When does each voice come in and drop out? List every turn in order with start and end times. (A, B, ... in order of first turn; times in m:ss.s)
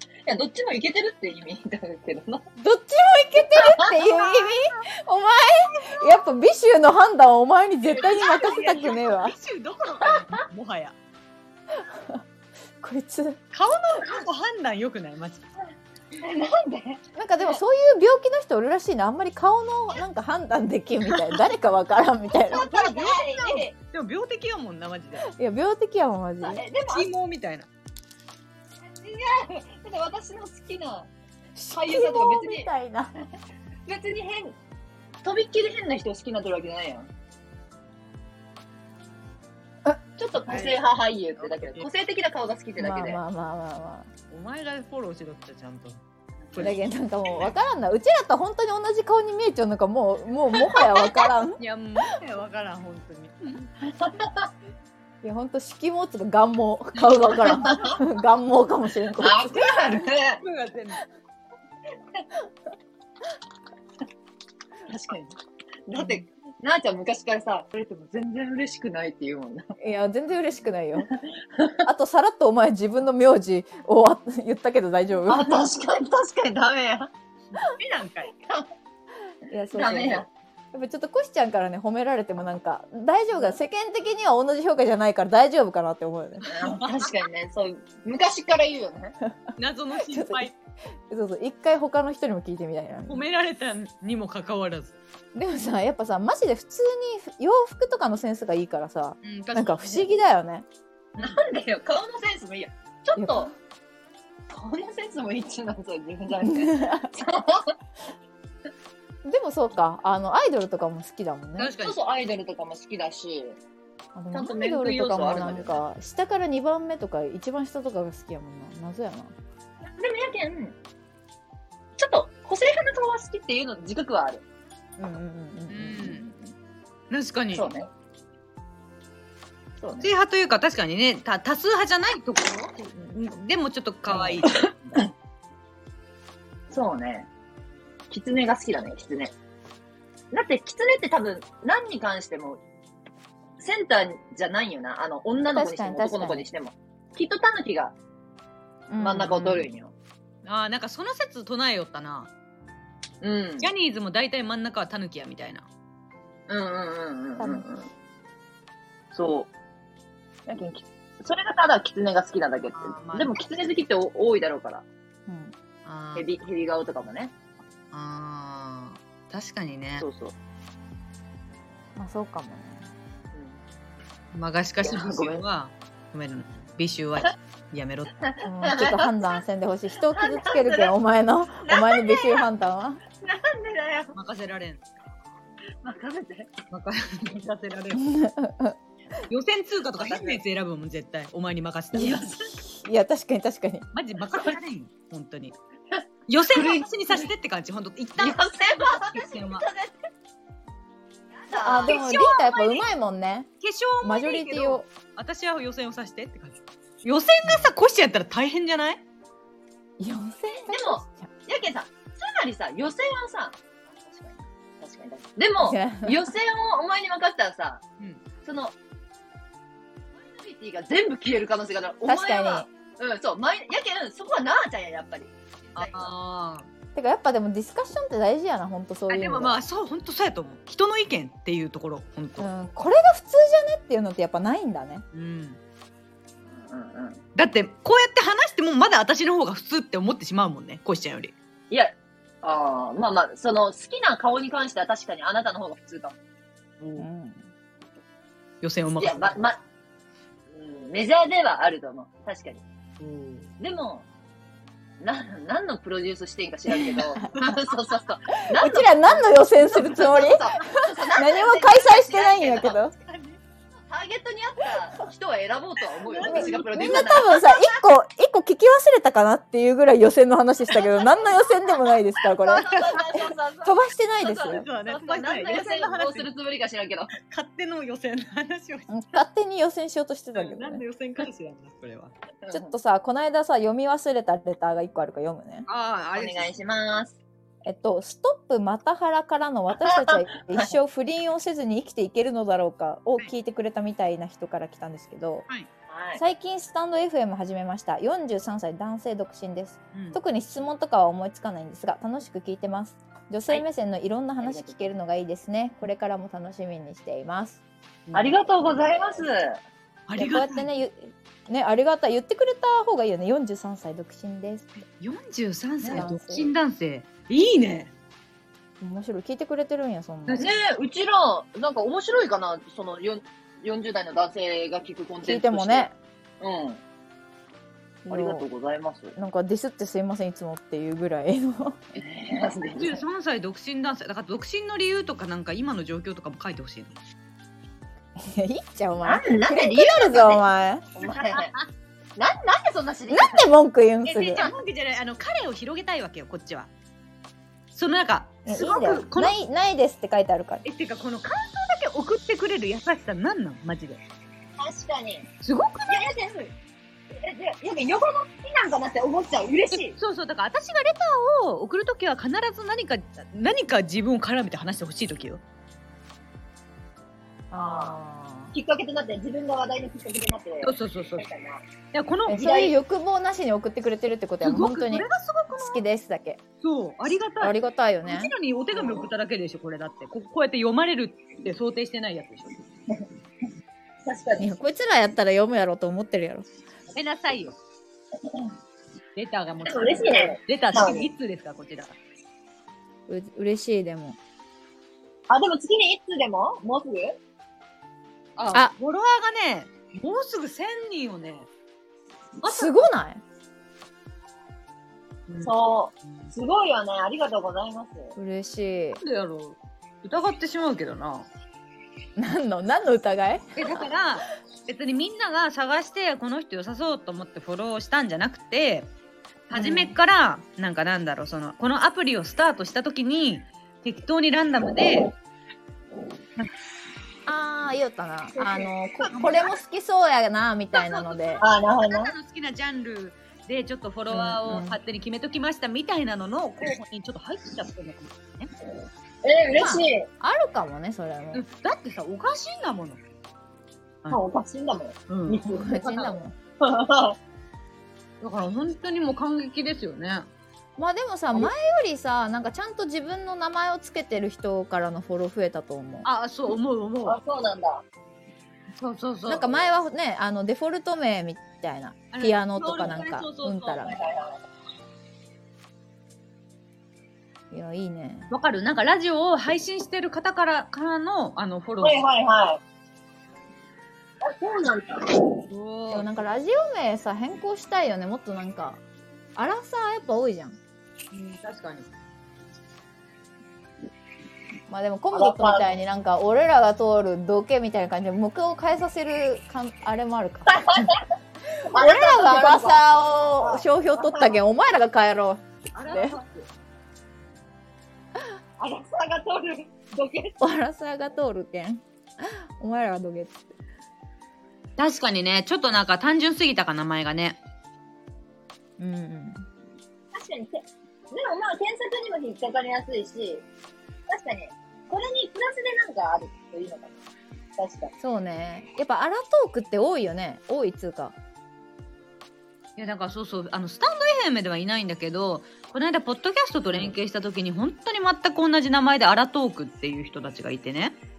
0:00.2-0:02.4 A
0:02.6-0:09.4 B
0:03.6-0:04.1 A
0:07.9-0:11.0 C
0:10.0-0:10.4 A
0:11.8-0:12.2 B
0:12.8-0:13.4 B
0:13.5-0:15.5 C
0:16.1-0:17.6 A
0:17.2-0:22.7 B
0:22.5-0:23.7 A
0:22.5-0:25.3 C
0:25.3-0:26.6 B
0:26.4-0:27.1 A
0:26.9-0:27.7 C
0:28.8-0:31.1 A
0:31.6-0:33.1 B
0:31.7-0:32.7 A
0:33.9-0:34.6 A
0:35.2-0:37.1 A
0:40.2-0:43.2 A
0:41.4-0:41.9 C
0:42.8-0:44.1 B
0:44.3-0:46.0 C
0:46.5-0:46.8 C
0:46.6-0:51.6 B
0:51.6-0:53.7 C
0:54.0-0:54.5 A
0:55.2-0:59.6 B
0:57.4-0:58.0 A
0:59.2-1:00.4 A
0:59.7-1:01.0 C
1:04.9-1:05.4 A
1:05.9-1:09.7 A
1:09.8-1:11.1 B
1:11.4-1:11.8 A
1:11.8-1:15.6 B
1:15.3-1:17.1 A
1:17.6-1:18.3 C
1:18.4-1:18.7 A
1:19.5-1:26.5 B
1:19.7-1:20.3 A
1:26.5-1:29.2 A
1:26.7-1:27.1 C
1:29.6-1:30.6 C
1:30.1-1:30.5 B
1:31.1-1:33.2 B
1:33.1-1:35.0 C
1:35.4-1:40.7 B
1:39.2-1:40.1 C
1:41.2-1:43.5 A
1:43.2-1:43.5 B
1:44.5-1:47.8 A
1:46.4-1:47.1 B
1:49.2-1:51.7 B
1:51.6-1:52.0 C
1:51.8-1:53.6 A
1:54.2-1:59.4 B
1:54.3-1:55.8 A
1:59.8-2:00.8 A
2:02.0-2:04.4 A
2:05.0-2:06.3 B
2:05.7-2:06.3 C
2:07.1-2:07.7 C
2:07.5-2:07.9 A
2:09.8-2:10.1 A
2:10.0-2:15.1 C
2:16.7-2:17.3 A
2:18.1-2:19.3 A
2:20.3-2:22.6 A
2:23.6-2:28.0 A
2:25.5-2:26.5 B
2:28.9-2:29.7 B
2:29.0-2:29.9 A
2:30.4-2:32.3 C
2:33.2-2:33.7 A
2:33.6-2:35.7 C
2:36.5-2:37.9 A
2:37.4-2:37.7 B
2:39.1-2:39.5 A
2:40.5-2:44.8 A
2:42.7-2:43.3 C
2:45.3-2:45.5 B
2:45.8-2:46.3 C
2:46.2-2:47.3 A
2:47.9-2:50.1 C
2:50.0-2:50.4 A
2:52.0-2:52.9 B
2:53.3-2:53.6 A
2:54.3-2:58.2 C
2:54.8-2:55.4 A
2:58.2-2:59.4 A
2:58.4-3:03.0 B
3:00.2-3:01.0 A
3:01.6-3:02.5 A
3:03.2-3:04.2 A
3:04.1-3:04.8 C
3:05.8-3:06.5 A
3:06.7-3:08.0 C
3:08.0-3:08.8 B
3:09.3-3:12.2 C
3:10.0-3:10.4 A
3:12.0-3:12.5 A
3:12.0-3:13.9 B
3:13.9-3:15.6 C
3:15.9-3:17.3 A
3:16.3-3:19.7 C
3:18.2-3:20.0 A
3:21.4-3:22.8 A
3:21.5-3:23.5 B
3:21.8-3:22.6 C
3:23.6-3:29.0 C
3:24.0-3:24.9 B
3:30.0-3:31.3 B
3:30.7-3:37.8 A
3:35.6-3:36.3 B
3:38.4-3:38.8 A
3:40.2-3:46.1 A
3:42.1-3:42.7 B
3:45.8-3:46.7 C
3:47.0-3:49.6 B
3:49.1-3:52.5 C
3:52.4-3:55.0 B
3:55.1-3:55.6 C
3:56.4-3:57.2 A
3:57.4-4:01.4 C
4:01.7-4:06.2 A
4:06.8-4:07.1 C
4:07.0-4:07.5 B
4:08.6-4:09.4 C
4:09.0-4:09.6 A
4:10.5-4:12.6 A
4:13.0-4:13.5 C
4:13.6-4:14.1 A
4:15.0-4:22.8 A
4:18.6-4:22.9 B
4:23.0-4:23.4 C
4:23.8-4:27.4 A
4:26.1-4:27.5 C
4:26.2-4:33.0 B
4:30.8-4:31.4 A
4:32.2-4:37.1 A
4:32.6-4:33.1 C
4:33.6-4:34.7 B
4:34.4-4:36.3 C
4:37.2-4:39.2 C
4:38.9-4:40.8 B
4:40.4-4:42.1 C
4:42.4-4:42.7 A
4:42.5-4:45.7 B
4:45.7-4:46.5 C
4:46.2-4:47.2 A
4:47.6-4:55.5 B
4:49.8-4:50.8 A
4:55.9-4:56.2 A
4:56.2-5:07.6 B
4:59.9-5:00.2 C
5:04.4-5:04.9 A
5:08.1-5:08.4 C
5:08.1-5:09.6 A
5:10.1-5:10.7 C
5:10.2-5:14.8 B
5:14.9-5:17.9 C
5:15.8-5:16.1 A
5:15.9-5:16.5 B
5:18.8-5:20.6 B
5:20.3-5:20.5 C
5:20.4-5:25.9 A
5:25.2-5:26.0 B
5:26.4-5:26.8 A
5:28.1-5:28.5 B
5:28.1-5:29.2 A
5:29.2-5:31.8 B
5:32.0-5:33.0 A
5:32.8-5:37.0 C
5:38.2-5:40.9 B
5:39.0-5:41.5 A
5:41.0-5:41.6 C
5:42.2-5:43.5 A
5:43.1-5:44.5 B
5:44.1-5:46.7 C
5:44.2-5:44.5 A
5:47.7-5:49.4 C
5:48.5-5:50.6 B
5:50.6-5:54.0 C
5:54.6-5:55.3 A
5:55.4-5:56.1 C
5:55.9-5:56.5 A
5:57.1-6:00.0 A
5:59.8-6:05.4 C
6:07.5-6:08.5 B
6:07.6-6:08.0 A
6:08.5-6:11.7 A
6:10.6-6:11.3 C
6:11.9-6:12.6 C
6:12.3-6:16.4 B
6:12.3-6:12.8 A
6:14.4-6:15.8 C
6:16.6-6:22.5 C
6:17.4-6:18.3 B
6:18.7-6:19.1 A
6:24.0-6:24.5 A
6:24.4-6:26.5 B
6:26.9-6:27.6 C
6:29.2-6:32.0 C
6:29.6-6:31.1 A
6:33.1-6:34.2 B
6:35.3-6:37.2 A
6:38.4-6:41.5 C
6:42.4-6:42.9 C
6:42.4-6:43.2 B
6:45.3-6:45.5 C
6:45.4-6:48.2 A
6:46.0-6:46.3 C
6:48.2-6:49.0 B
6:49.0-6:51.3 C
6:52.2-6:53.8 B
6:53.6-6:58.9 C
6:59.5-7:05.1 C
6:59.5-7:00.0 B
7:07.3-7:11.4 B
7:08.4-7:08.7 A
7:09.0-7:09.5 C
7:10.7-7:18.5 C
7:11.4-7:12.1 A
7:14.1-7:14.8 B
7:19.2-7:20.1 A
7:19.6-7:21.4 B
7:21.3-7:23.0 C
7:24.1-7:27.2 A
7:25.1-7:25.5 C
7:25.4-7:26.4 B
7:28.2-7:30.3 C
7:30.8-7:36.1 B
7:36.0-7:37.2 C
7:37.0-7:37.8 A
7:38.8-7:39.6 C
7:39.3-7:44.0 B
7:42.1-7:43.9 C
7:43.9-7:44.3 A
7:47.5-7:48.3 B
7:48.3-7:52.0 C
7:51.8-7:52.6 A
7:54.2-7:55.4 A
7:55.5-7:56.2 C
7:55.9-7:58.8 B
7:59.4-8:00.6 B
8:01.1-8:01.9 C
8:04.7-8:10.9 B
8:05.1-8:05.8 A
8:10.5-8:11.0 A
8:11.7-8:16.2 B
8:11.7-8:12.9 A
8:13.4-8:14.4 A
8:15.8-8:16.3 A
8:15.8-8:16.2 C
8:18.6-8:20.4 A
8:20.4-8:23.4 B
8:24.8-8:27.4 C
8:28.8-8:29.5 B
8:30.1-8:33.4 A
8:34.1-8:37.0 A
8:37.6-8:37.9 A
8:38.0-8:41.2 B
8:42.8-8:51.0 C